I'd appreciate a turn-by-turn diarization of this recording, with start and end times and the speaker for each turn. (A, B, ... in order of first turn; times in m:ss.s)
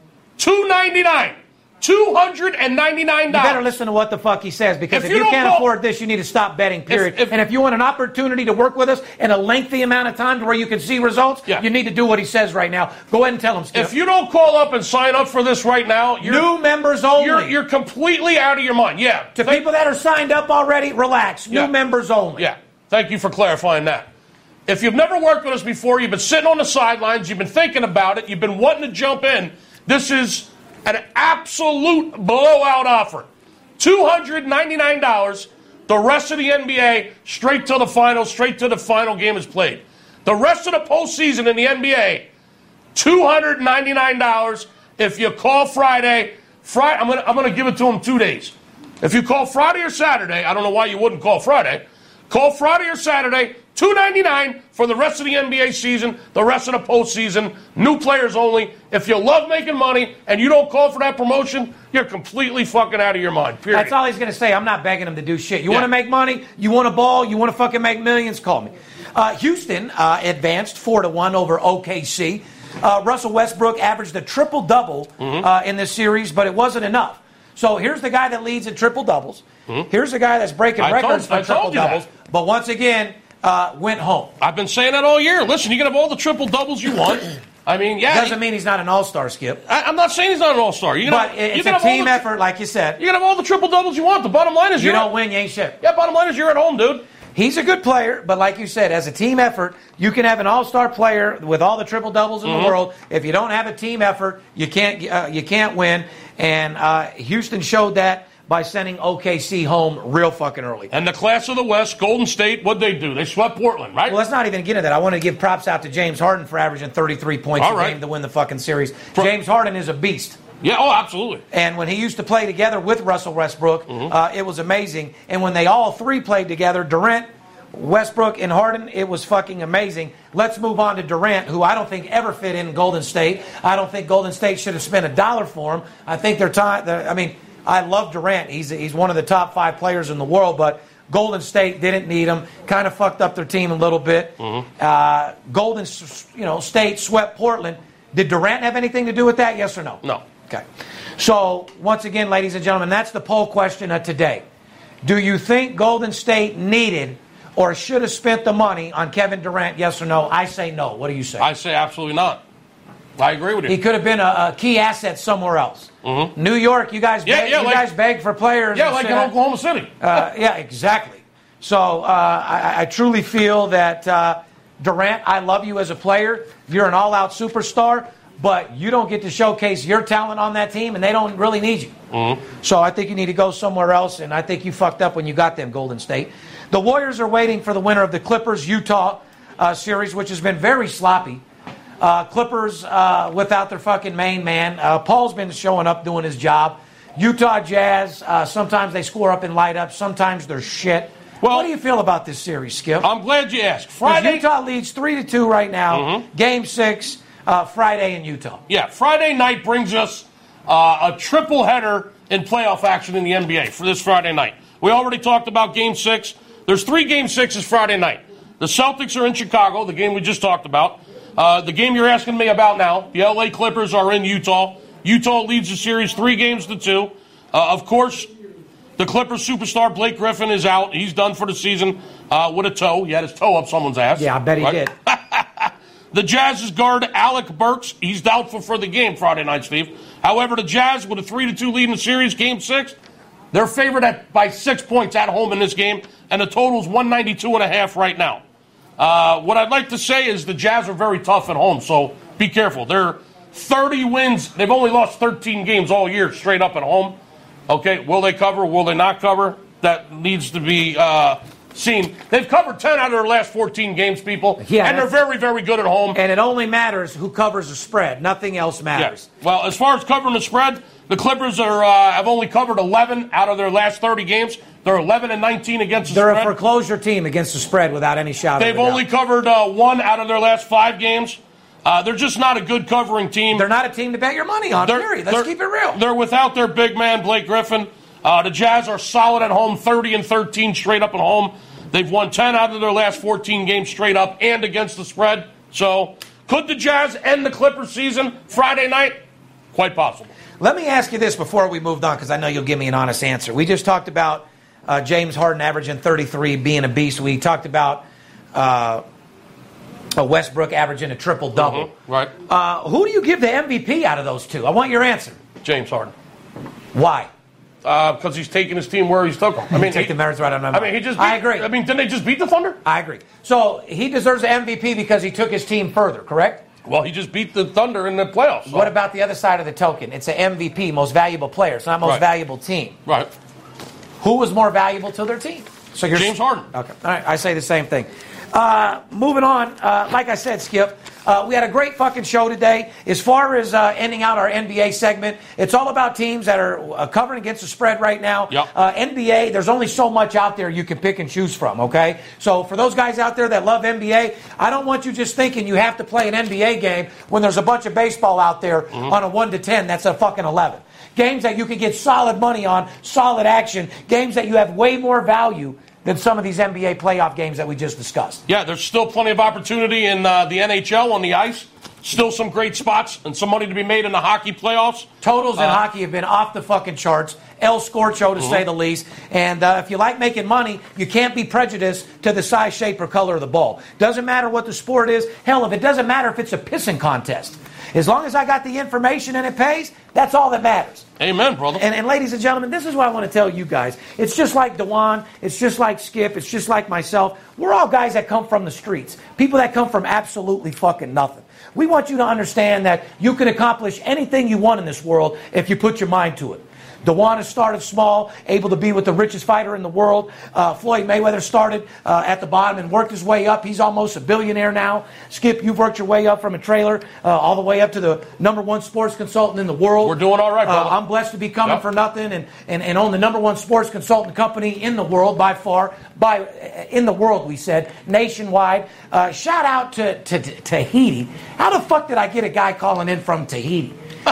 0:00.4-0:03.6 A
0:03.3-0:13.9 B
0:04.9-0:05.7 A
0:06.9-0:07.4 A
0:13.7-0:16.5 A
0:16.2-0:17.5 B
0:17.2-0:19.6 A
0:19.4-0:22.5 B
0:22.4-0:24.1 A
0:24.7-0:42.3 A
0:43.0-1:03.9 A
1:03.7-1:24.3 B
1:15.2-1:15.5 A
1:20.8-1:22.1 A
1:24.4-1:28.4 A
1:28.1-1:29.6 B
1:29.7-1:32.3 A
1:31.0-1:33.0 B
1:33.0-1:35.1 A
1:34.8-1:35.8 B
1:35.8-1:37.0 A
1:37.4-1:50.9 B
1:42.4-1:42.7 A
1:50.9-1:54.2 A
1:54.1-2:00.4 B
1:57.6-1:58.0 A
2:00.6-2:01.4 A
2:01.5-2:30.6 B
2:24.4-2:24.7 A
2:31.2-2:34.4 B
2:35.0-2:41.5 B
2:41.4-2:42.4 A
2:43.2-2:43.8 A
2:43.7-2:49.3 B
2:46.0-2:46.3 A
2:47.2-2:47.9 A
2:48.7-2:50.0 A
2:50.0-3:01.9 B
3:02.1-3:02.4 A
3:02.6-3:11.4 B
3:12.0-3:23.1 B
3:21.4-3:21.7 A
3:23.0-3:24.4 A
3:24.0-3:28.6 B
3:25.9-3:26.2 A
3:28.7-3:48.3 A
3:49.0-4:02.9 A
3:54.2-3:54.9 B
4:03.5-4:08.4 A
4:09.0-4:17.2 A
4:17.7-4:26.2 A
4:24.6-4:25.1 B
4:26.1-4:29.3 B
4:29.0-4:36.5 A
4:36.1-4:39.0 B
4:38.6-4:43.6 A
4:43.5-4:46.0 B
4:44.8-4:59.2 A
4:59.7-5:00.3 A
5:00.6-5:08.0 B
5:08.5-5:09.0 B
5:10.2-5:11.9 B
5:11.6-5:12.3 A
5:12.5-5:15.4 B
5:15.6-5:16.1 A
5:16.9-5:17.3 B
5:17.8-5:20.1 A
5:19.7-5:21.7 B
5:20.7-5:22.8 A
5:22.8-5:26.6 B
5:26.8-5:28.9 A
5:28.7-5:33.0 B
5:34.2-6:08.4 B
5:36.2-5:36.7 A
6:08.5-6:15.8 A
6:15.2-6:31.0 B
6:18.4-6:18.6 A
6:31.2-6:31.8 A
6:31.8-7:14.0 B
7:00.0-7:00.9 A